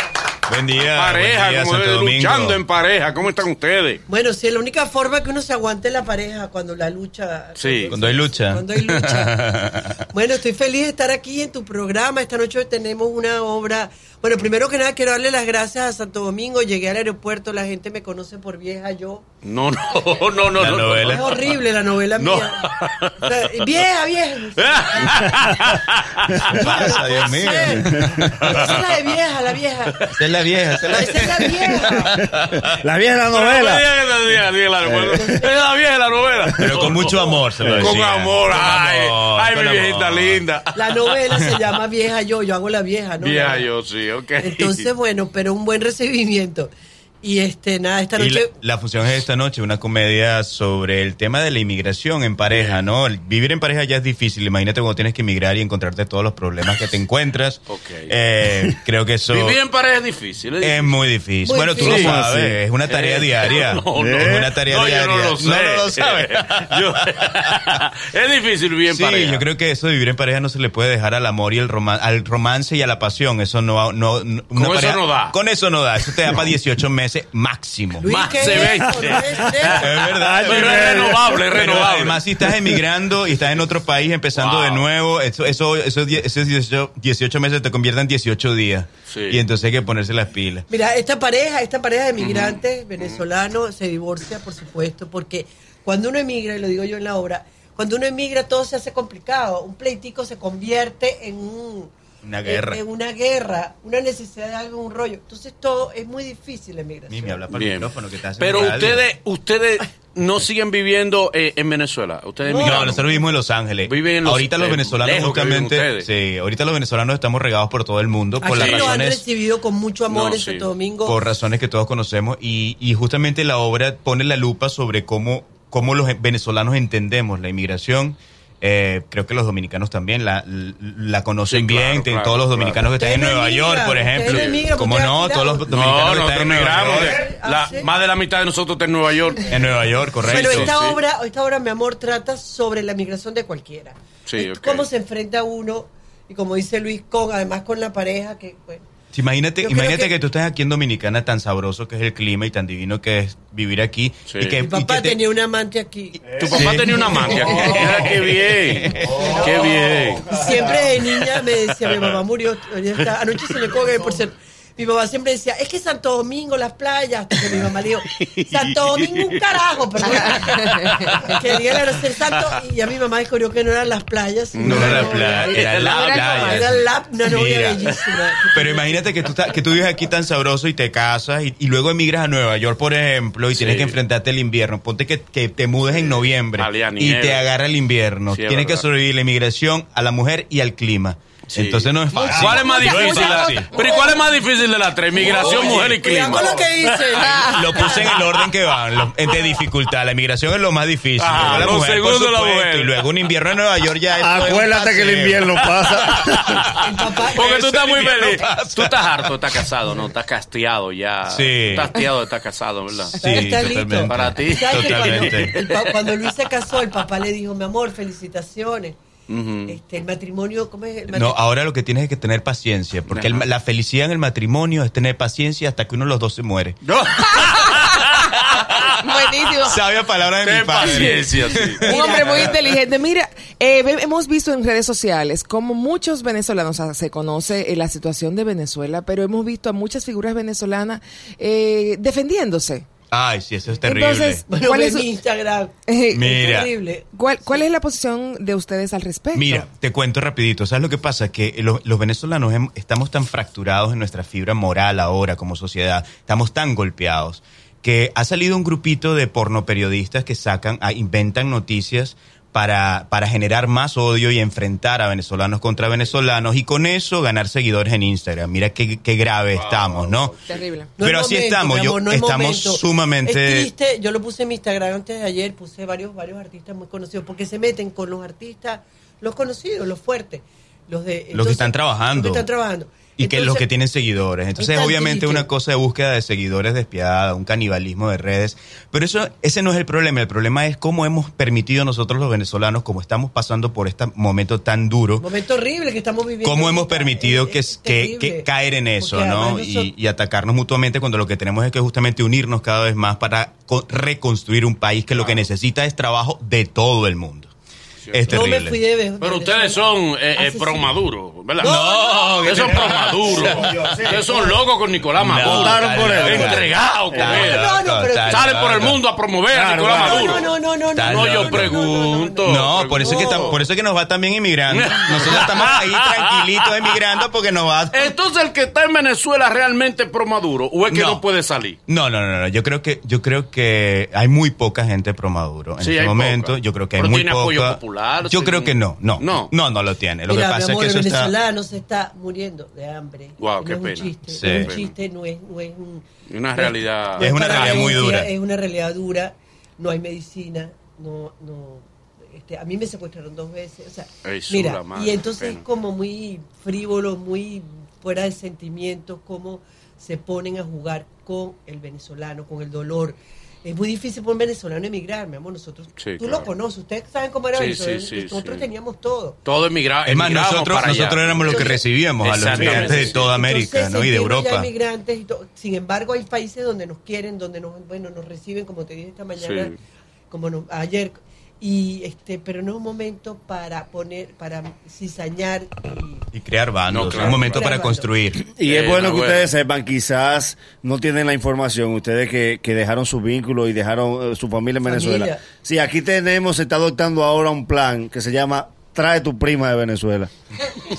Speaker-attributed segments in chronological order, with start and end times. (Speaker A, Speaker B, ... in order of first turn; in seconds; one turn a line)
Speaker A: 0.5-2.6
Speaker B: 0.8-4.0
Speaker C: 4.1-9.4
Speaker B: 7.6-7.9
Speaker A: 7.9-10.0
Speaker C: 10.1-19.2
Speaker B: 19.4-21.6
Speaker A: 20.6-21.2
Speaker C: 21.0-22.6
Speaker B: 22.2-23.3
Speaker C: 23.2-25.6
Speaker B: 24.6-26.9
Speaker A: 26.5-28.6
Speaker C: 26.5-30.0
Speaker D: 27.7-28.5
Speaker B: 28.4-29.1
Speaker A: 30.1-32.6
Speaker B: 30.8-32.7
Speaker C: 30.9-32.1
Speaker D: 32.6-33.9
Speaker B: 33.3-37.3
Speaker D: 34.8-35.4
Speaker C: 35.1-35.5
Speaker D: 36.4-36.9
Speaker A: 36.5-40.4
Speaker C: 37.0-37.4
Speaker D: 37.6-37.9
Speaker B: 37.8-41.4
Speaker C: 40.7-43.7
Speaker B: 43.2-44.9
Speaker C: 44.4-48.5
Speaker A: 48.1-59.6
Speaker B: 52.5-52.8
Speaker B: 57.7-58.1
Speaker B: 59.3-61.0
Speaker A: 60.6-66.9
Speaker C: 61.4-62.1
Speaker B: 61.8-62.2
Speaker D: 61.8-62.6
Speaker B: 62.9-69.5
Speaker D: 63.9-64.5
Speaker A: 68.9-79.1
Speaker B: 74.5-75.4
Speaker C: 78.0-80.1
Speaker B: 78.0-82.2
Speaker A: 79.6-90.7
Speaker D: 80.1-81.5
Speaker D: 82.4-82.8
Speaker B: 84.3-84.9
Speaker B: 89.1-89.4
Speaker C: 90.7-101.9
Speaker B: 92.2-93.2
Speaker A: 102.2-102.8
Speaker C: 102.4-107.4
Speaker A: 107.1-109.0
Speaker B: 107.5-113.0
Speaker C: 112.4-113.3
Speaker A: 112.6-119.2
Speaker B: 113.8-116.1
Speaker C: 118.4-121.2
Speaker B: 118.5-119.0
Speaker B: 120.1-120.7
Speaker A: 121.0-137.2
Speaker B: 131.5-132.8
Speaker C: 133.0-135.6
Speaker B: 134.3-134.6
Speaker B: 135.7-139.5
Speaker C: 136.8-137.9
Speaker A: 139.5-140.7
Speaker B: 140.2-141.0
Speaker C: 140.2-148.8
Speaker B: 144.2-144.9
Speaker A: 149.1-155.2
Speaker C: 149.6-150.1
Speaker B: 154.3-154.6
Speaker C: 154.6-158.0
Speaker D: 156.2-158.1
Speaker B: 156.4-160.3
Speaker A: 156.5-157.0
Speaker A: 157.6-159.5
Speaker C: 158.9-159.7
Speaker D: 159.0-160.9
Speaker C: 160.3-175.5
Speaker B: 168.1-169.4
Speaker B: 170.1-171.7
Speaker E: 170.3-170.8
Speaker B: 174.5-176.5
Speaker A: 174.6-177.8
Speaker E: 174.7-176.7
Speaker C: 176.3-179.1
Speaker A: 178.5-193.9
Speaker B: 183.5-184.0
Speaker B: 185.9-187.5
Speaker B: 188.3-188.9
Speaker B: 191.5-197.3
Speaker E: 192.2-194.2
Speaker C: 193.0-194.1
Speaker C: 195.2-198.2
Speaker A: 195.5-195.9
Speaker A: 197.2-205.6
Speaker E: 197.2-198.0
Speaker B: 201.2-203.0
Speaker D: 204.1-206.6
Speaker B: 205.9-213.2
Speaker A: 206.5-209.2
Speaker C: 206.8-207.5
Speaker A: 211.3-212.0
Speaker A: 213.0-215.5
Speaker C: 213.2-219.0
Speaker B: 214.0-215.7
Speaker B: 219.3-219.8
Speaker C: 219.7-221.4
Speaker A: 221.1-226.8
Speaker B: 223.1-223.4
Speaker B: 226.8-229.7
Speaker E: 227.2-228.3
Speaker E: 228.9-229.8
Speaker A: 229.6-231.9
Speaker B: 230.4-232.6
Speaker E: 230.8-242.8
Speaker C: 231.8-232.7
Speaker A: 243.1-244.4
Speaker E: 243.8-245.1
Speaker C: 244.5-247.7
Speaker E: 245.9-246.3
Speaker A: 246.1-246.7
Speaker E: 247.1-249.7
Speaker A: 249.3-270.3
Speaker B: 269.5-270.6
Speaker E: 270.5-271.0
Speaker C: 271.0-283.7
Speaker A: 271.0-273.7
Speaker A: 281.3-282.4
Speaker A: 283.2-295.2
Speaker C: 284.6-285.5
Speaker C: 295.2-299.9
Speaker A: 296.4-307.5
Speaker B: 308.0-308.4
Speaker A: 308.1-308.8
Speaker C: 308.3-310.9
Speaker B: 309.2-317.6
Speaker C: 311.6-312.9
Speaker A: 311.6-313.8
Speaker D: 312.8-314.6
Speaker A: 315.2-319.0
Speaker D: 315.4-316.7
Speaker C: 317.1-318.7
Speaker B: 318.3-320.5
Speaker D: 319.5-320.4
Speaker C: 319.9-322.5
Speaker A: 320.9-321.8
Speaker B: 321.0-323.6
Speaker A: 322.4-328.1
Speaker C: 323.0-323.6
Speaker B: 324.7-327.0
Speaker B: 327.9-331.8
Speaker A: 330.9-331.2
Speaker A: 331.9-341.3
Speaker B: 335.8-339.5
Speaker C: 340.3-369.4
Speaker B: 343.4-344.9
Speaker A: 344.3-344.7
Speaker B: 346.3-348.0
Speaker A: 347.2-348.3
Speaker B: 354.2-355.6
Speaker B: 366.0-366.5
Speaker B: 367.5-368.7
Speaker B: 369.4-373.3
Speaker A: 370.0-374.7
Speaker C: 371.4-371.8
Speaker D: 372.6-373.0
Speaker C: 372.7-379.7
Speaker B: 379.4-379.7
Speaker C: 380.3-386.3
Speaker A: 386.3-388.4
Speaker B: 386.9-387.7
Speaker C: 387.2-388.1
Speaker D: 388.4-400.3
Speaker B: 388.6-389.5
Speaker C: 394.8-395.4